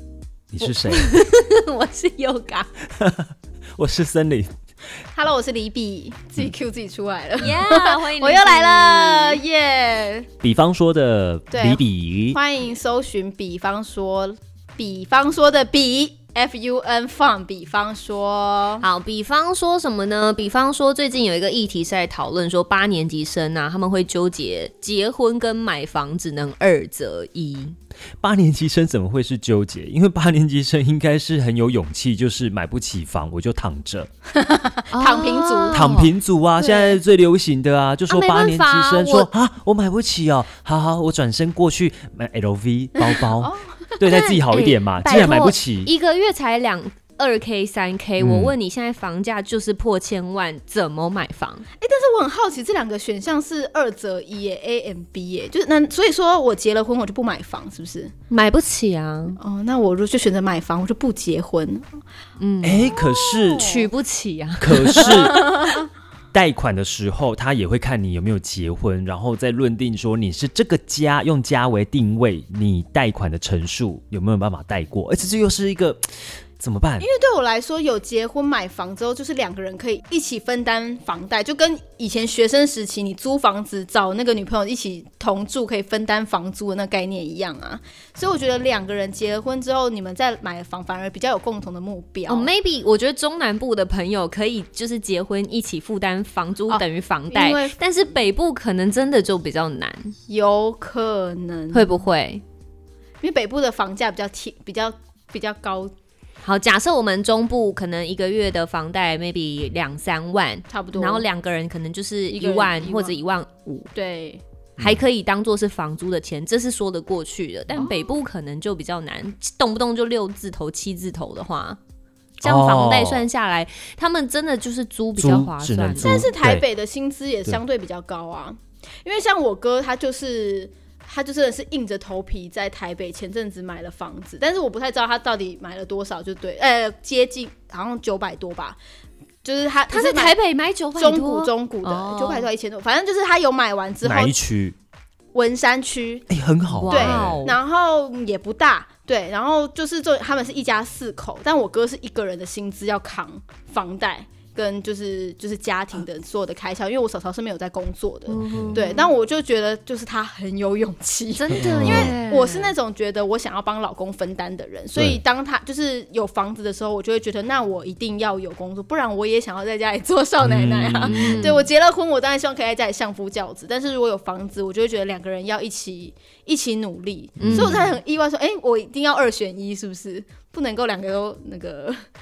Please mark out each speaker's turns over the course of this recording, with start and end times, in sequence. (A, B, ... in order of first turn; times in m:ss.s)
0:00.5-0:01.1 A
0:00.6-0:02.7 B
0:03.0-0:04.5 A
0:05.1-0:10.3 C
0:07.4-0:09.4 B
0:10.4-0:12.4 A
0:11.5-0:18.8 C
0:18.8-0:27.8 B
0:28.2-0:34.1 A
0:34.3-0:35.9 C
0:34.9-0:36.1 B
0:35.7-0:45.9 A
0:36.6-0:37.0 B
0:38.1-0:39.3 B
0:43.0-0:44.0 C
0:44.0-0:51.6 B
0:48.2-0:48.5 A
0:51.8-0:58.1 C
0:58.3-0:59.4 B
0:59.4-1:01.9 C
1:02.4-1:05.4 B
1:02.6-1:03.8 A
1:03.3-1:03.8 C
1:04.6-1:05.7 A
1:05.0-1:05.8 C
1:06.3-1:16.0 A
1:16.6-1:17.0 A
1:17.0-1:32.5 C
1:32.3-1:40.1 B
1:36.7-1:37.8 C
1:40.3-1:42.0 C
1:41.7-1:42.4 B
1:43.2-1:45.9 C
1:46.4-1:53.9 B
1:50.7-1:51.2 C
1:52.3-1:53.1 C
1:53.9-1:54.4 C
1:54.8-1:55.0 A
1:54.8-2:01.8 B
1:57.7-1:58.1 C
2:02.4-2:06.3 B
2:02.4-2:03.3 A
2:05.2-2:06.6 A
2:06.0-2:18.8 C
2:19.4-2:20.4 C
2:19.9-2:22.5 B
2:21.0-2:24.3 C
2:24.0-2:24.8 A
2:25.3-2:26.3 C
2:26.3-2:27.4 A
2:26.7-2:27.6 B
2:26.9-3:02.0 C
2:38.3-2:39.1 B
2:38.3-2:38.8 A
2:41.4-2:42.7 B
2:41.5-2:42.2 A
2:50.4-2:51.6 A
2:51.1-2:51.6 B
2:57.4-2:58.0 A
2:57.4-2:57.7 B